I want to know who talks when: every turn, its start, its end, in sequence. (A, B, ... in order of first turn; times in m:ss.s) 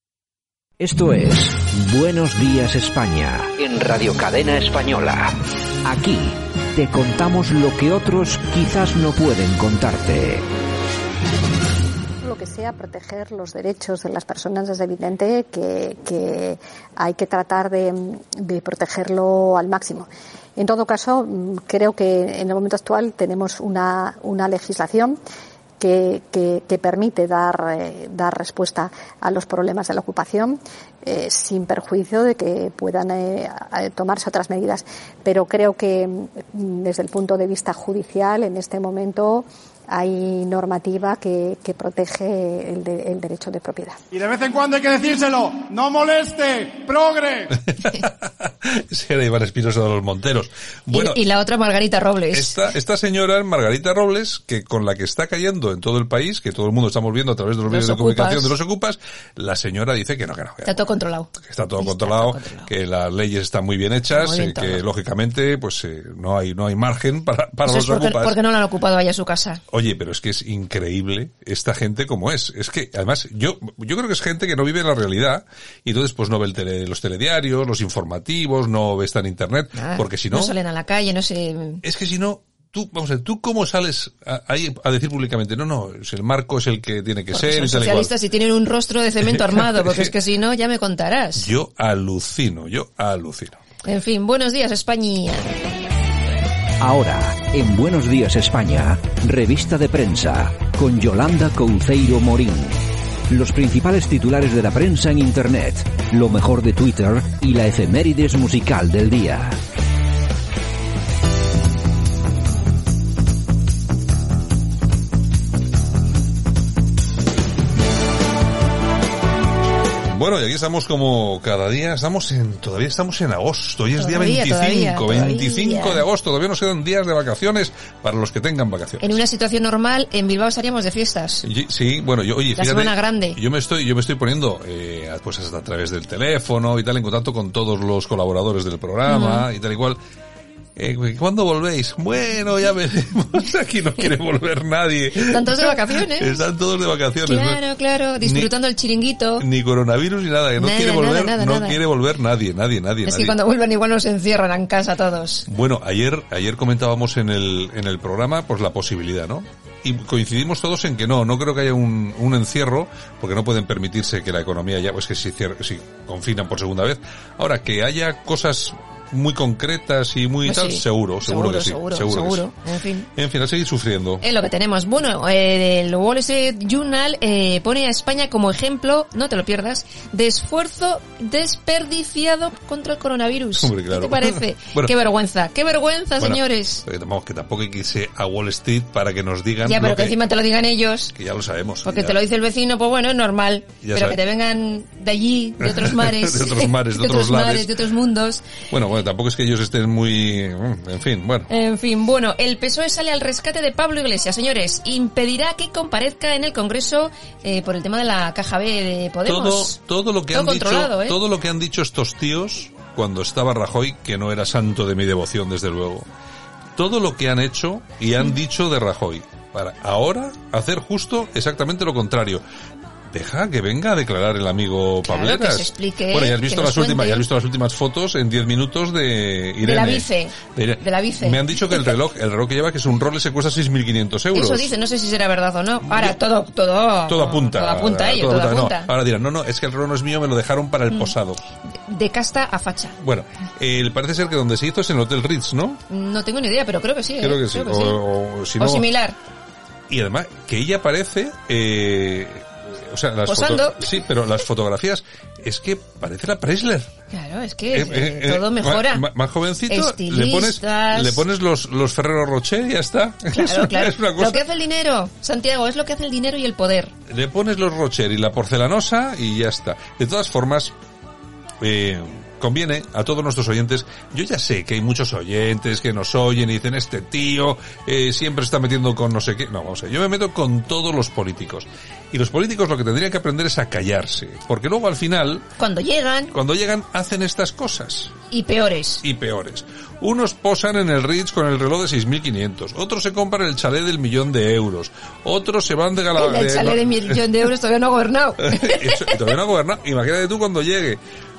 0:00.8-0:10.5 A
0:12.2-0:25.2 B
0:25.8-0:44.0 B
0:44.1-0:47.5 C
0:47.5-0:51.2 D
0:50.9-0:52.7 E
0:52.3-1:00.8 D
0:57.7-0:58.6 E
1:00.6-1:02.7 E
1:01.4-1:08.4 D
1:04.1-1:04.8 E
1:07.7-1:09.6 E
1:09.7-1:20.6 D
1:19.8-1:21.8 E
1:21.8-1:28.1 D
1:27.3-1:31.5 E
1:29.2-1:30.1 D
1:31.4-1:33.6 D
1:33.8-1:35.5 E
1:36.8-1:49.6 A
2:00.1-2:09.2 D
2:04.0-2:06.1 E
2:09.0-2:11.4 E
2:11.4-2:20.0 D
2:12.6-2:13.4 E
2:19.1-2:19.5 E
2:20.8-2:27.6 D
2:25.2-2:26.5 E
2:27.2-2:29.4 E
2:28.2-2:28.5 D
2:29.4-2:33.4 D
2:30.6-2:31.8 E
2:33.0-2:35.4 E
2:35.5-2:52.5 D
2:50.4-2:53.1 E
2:53.2-2:54.2 D
2:54.2-3:06.8 E
3:03.6-3:04.9 D
3:06.2-3:10.2 D
3:09.6-3:11.1 E
3:11.1-3:12.2 D
3:11.8-3:18.4 E
3:13.8-3:14.2 D
3:15.6-3:17.7 D
3:18.7-3:21.5 D
3:21.5-3:29.8 E
3:29.2-3:36.1 D
3:30.3-3:31.2 E
3:36.8-3:42.4 D
3:43.1-3:54.7 D
3:45.0-3:47.3 E
3:49.6-3:51.9 E
3:54.3-3:58.9 E
3:55.9-3:56.2 D
3:57.1-4:01.4 D
4:01.9-4:03.0 E
4:03.0-4:05.8 D
4:05.9-4:09.2 E
4:07.2-4:08.9 D
4:09.9-4:16.9 D
4:13.2-4:14.0 E
4:17.1-4:19.1 E
4:17.7-4:24.4 D
4:19.7-4:21.3 E
4:23.3-4:26.9 E
4:27.1-4:30.7 D
4:31.6-4:45.5 D
4:45.6-4:46.3 E
4:46.3-4:48.2 D
4:48.3-4:49.0 E
4:49.0-4:57.2 D
4:56.2-4:59.3 E
4:58.4-5:01.0 D